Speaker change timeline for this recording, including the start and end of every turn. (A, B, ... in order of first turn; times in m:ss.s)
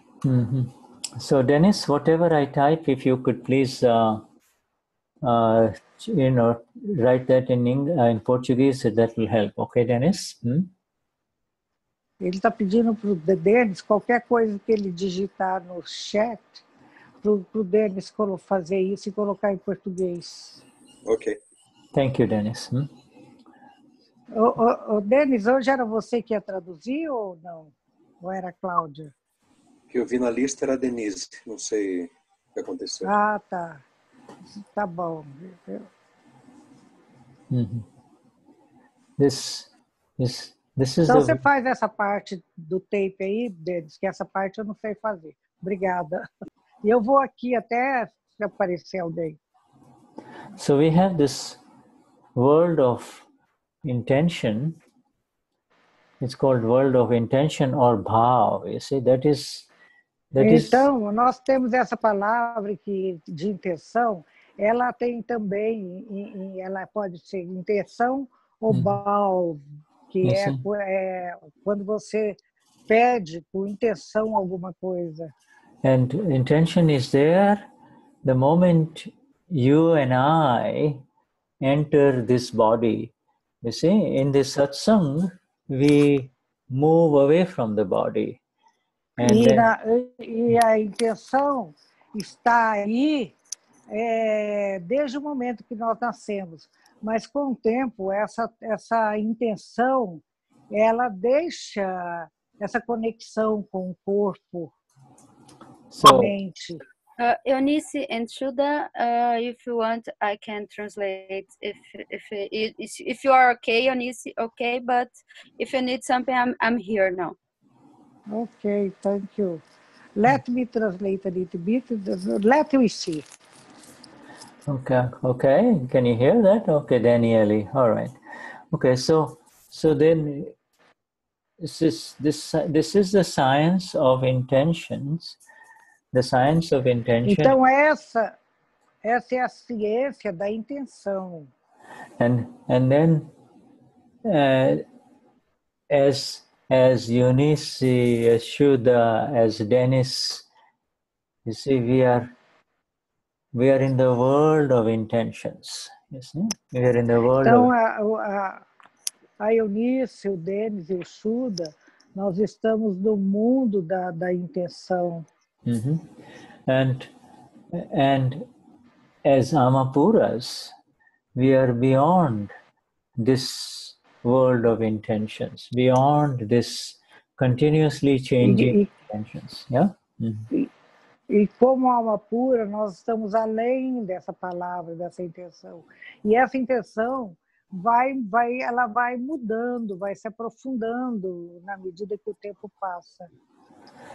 0:00.2-0:04.2 A
0:05.2-0:10.7 A
0:12.2-0:16.6 B
0:17.2-0:20.6 B
0:21.0-0:21.4 C
0:21.9-0:22.9 A
0:24.3-0:29.1 B
0:29.9-0:33.1 C
0:33.0-0:33.8 B
0:34.6-0:35.9 B
0:37.5-0:37.8 A
0:39.2-0:41.4 A
0:41.1-0:46.3 B
0:46.8-0:49.4 B
0:50.5-0:51.6 A
0:52.3-0:53.2 A
0:53.8-0:54.8 A
0:56.2-0:59.7 A
1:00.3-1:00.8 A
1:00.4-1:15.3 B
1:08.7-1:09.0 A
1:10.2-1:10.6 A
1:15.8-1:17.7 A
1:18.2-1:21.0 A
1:21.6-1:28.4 A
1:29.2-1:29.7 A
1:29.2-1:33.3 B
1:33.9-1:44.7 B
1:45.9-1:46.4 A
1:46.0-1:46.8 B
1:47.2-1:57.3 D
1:58.3-1:59.6 B
2:00.2-2:03.2 B
2:04.6-2:08.2 A
2:08.7-2:10.5 A
2:11.6-2:15.4 A
2:16.1-2:17.5 A
2:17.2-2:18.3 B
2:19.0-2:21.5 B
2:22.2-2:23.3 A
2:24.2-2:24.8 A
2:25.9-2:30.4 A
2:31.4-2:32.3 A
2:33.5-2:37.7 A
2:37.4-2:38.6 B
2:39.4-2:45.2 B
2:45.6-2:46.1 A
2:46.7-2:47.1 A
2:47.7-2:48.5 A
2:49.2-2:50.7 A
2:51.3-2:52.5 A
2:53.2-3:00.5 A
2:58.4-2:58.9 B
3:01.3-3:13.3 B